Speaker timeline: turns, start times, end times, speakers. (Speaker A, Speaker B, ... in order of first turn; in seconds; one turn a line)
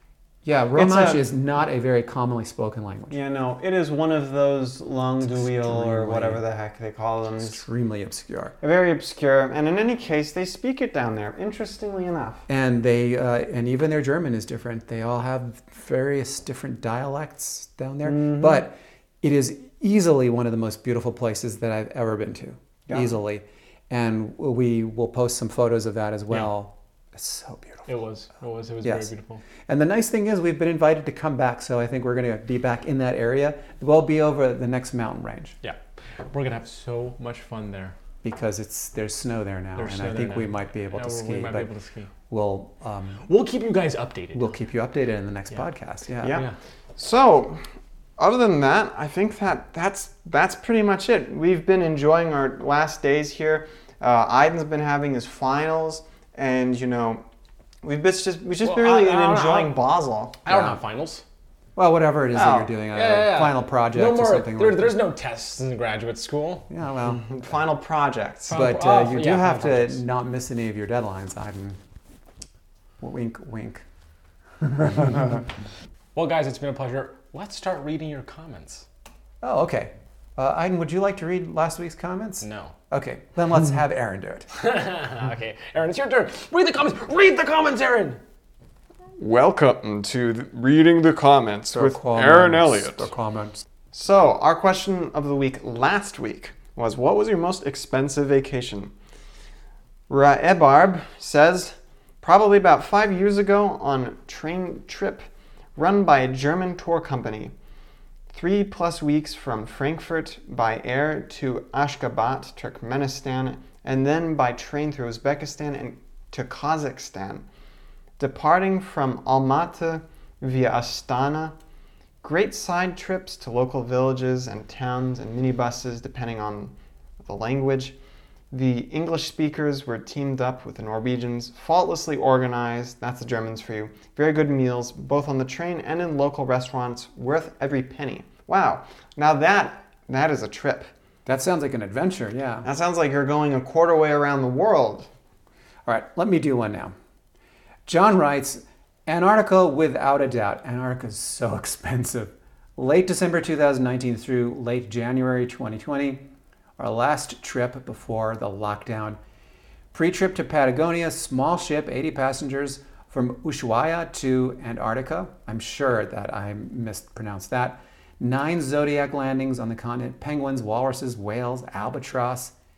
Speaker A: 0.4-3.2
Speaker B: 0.7-1.2
Speaker B: 3.1-7.6
Speaker A: 5.2-6.4
Speaker A: 7.4-8.6
Speaker B: 8.6-12.5
Speaker A: 12.5-27.9
Speaker B: 18.1-18.6
Speaker C: 27.9-29.4
Speaker A: 28.8-29.1
Speaker A: 29.7-35.6
Speaker C: 35.6-38.0
Speaker A: 38.2-41.7
Speaker C: 39.8-42.1
Speaker A: 42.3-43.3
Speaker C: 43.3-44.5
Speaker A: 44.3-46.4
Speaker B: 46.2-47.6
Speaker C: 46.3-46.5
Speaker B: 48.2-57.2
Speaker B: 57.8-60.4
Speaker C: 58.6-59.8
Speaker C: 60.5-61.2
Speaker A: 60.5-60.8
Speaker A: 61.8-65.0
Speaker B: 62.3-62.7
Speaker C: 62.9-66.7
Speaker A: 66.7-67.3
Speaker B: 67.1-68.6
Speaker C: 68.5-70.0
Speaker A: 68.5-71.8
Speaker A: 73.0-73.8
Speaker A: 74.6-75.4
Speaker C: 76.2-78.9
Speaker A: 79.4-84.5
Speaker C: 82.4-82.8
Speaker C: 84.5-88.2
Speaker B: 89.2-93.1
Speaker A: 91.7-93.6
Speaker B: 93.9-98.9
Speaker B: 100.1-105.2
Speaker B: 105.8-107.5
Speaker B: 108.3-117.5
Speaker B: 118.2-121.5
Speaker B: 122.2-126.7
Speaker B: 127.2-128.0
Speaker B: 128.5-140.9
Speaker A: 141.3-142.7
Speaker B: 142.6-145.1
Speaker A: 145.9-146.9
Speaker A: 147.9-156.2
Speaker A: 156.8-159.2
Speaker A: 159.9-172.5